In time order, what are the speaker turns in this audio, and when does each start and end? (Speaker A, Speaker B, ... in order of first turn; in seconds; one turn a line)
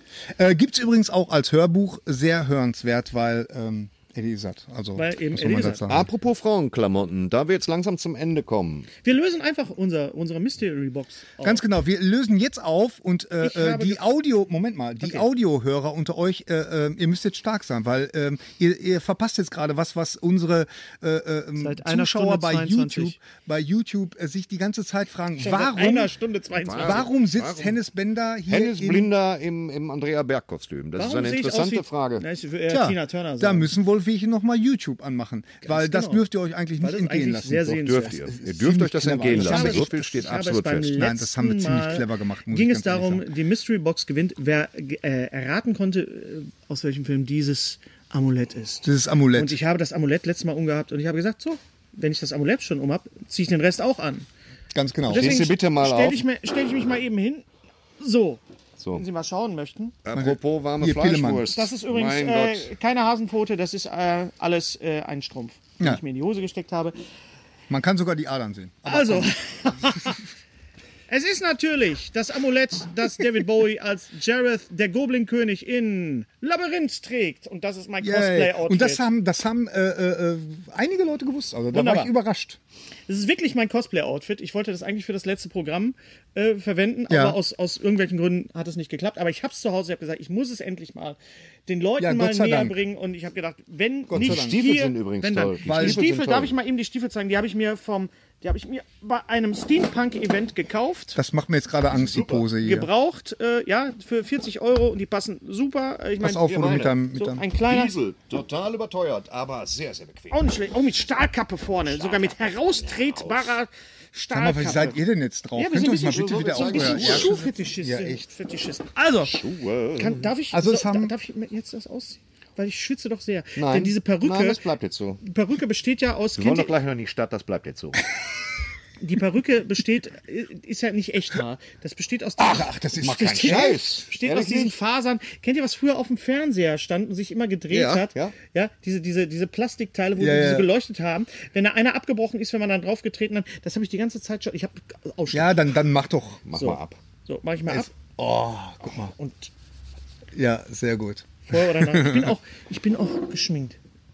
Speaker A: 0.3-6.1
Speaker B: 5.0-5.8
Speaker C: 5.9-8.9
Speaker B: 9.0-11.6
Speaker A: 11.4-26.1
Speaker B: 13.4-14.1
Speaker B: 15.0-15.3
Speaker B: 21.6-23.2
Speaker B: 25.4-27.1
Speaker C: 26.6-27.8
Speaker A: 26.8-29.1
Speaker C: 28.5-32.2
Speaker B: 31.0-33.7
Speaker A: 32.7-37.7
Speaker B: 35.6-36.2
Speaker B: 36.8-38.3
Speaker C: 37.7-41.0
Speaker A: 38.3-40.1
Speaker B: 39.3-54.3
Speaker A: 40.9-43.3
Speaker A: 48.8-49.6
Speaker A: 54.7-55.5
Speaker B: 55.1-57.5
Speaker C: 55.1-56.2
Speaker B: 58.0-60.0
Speaker C: 58.8-59.0
Speaker C: 60.0-62.7
Speaker A: 60.1-61.5
Speaker B: 61.5-67.0
Speaker A: 67.7-70.1
Speaker B: 68.8-70.2
Speaker B: 71.1-79.0
Speaker A: 78.0-82.6
Speaker B: 81.7-82.1
Speaker B: 83.1-101.2
Speaker A: 87.1-87.4
Speaker A: 92.0-92.8
Speaker A: 94.1-94.6
Speaker C: 94.1-96.5
Speaker A: 95.6-96.0
Speaker A: 101.2-102.9
Speaker C: 101.9-102.5
Speaker B: 102.6-108.0
Speaker A: 106.2-107.5
Speaker C: 106.4-107.0
Speaker C: 107.7-110.4
Speaker B: 110.3-115.0
Speaker C: 112.0-113.6
Speaker A: 114.3-118.2
Speaker B: 115.5-119.4
Speaker C: 116.1-117.3
Speaker C: 119.2-120.3
Speaker B: 120.0-124.6
Speaker A: 120.5-121.1
Speaker C: 123.6-125.2
Speaker B: 125.2-126.8
Speaker C: 126.4-128.0
Speaker B: 129.0-145.7
Speaker A: 132.4-133.8
Speaker C: 133.0-134.8
Speaker C: 137.7-138.3
Speaker A: 140.2-140.7
Speaker A: 145.3-146.4
Speaker C: 146.4-147.0
Speaker B: 146.5-147.9
Speaker A: 147.7-149.1
Speaker B: 148.9-149.5
Speaker A: 150.3-152.3
Speaker B: 151.5-153.8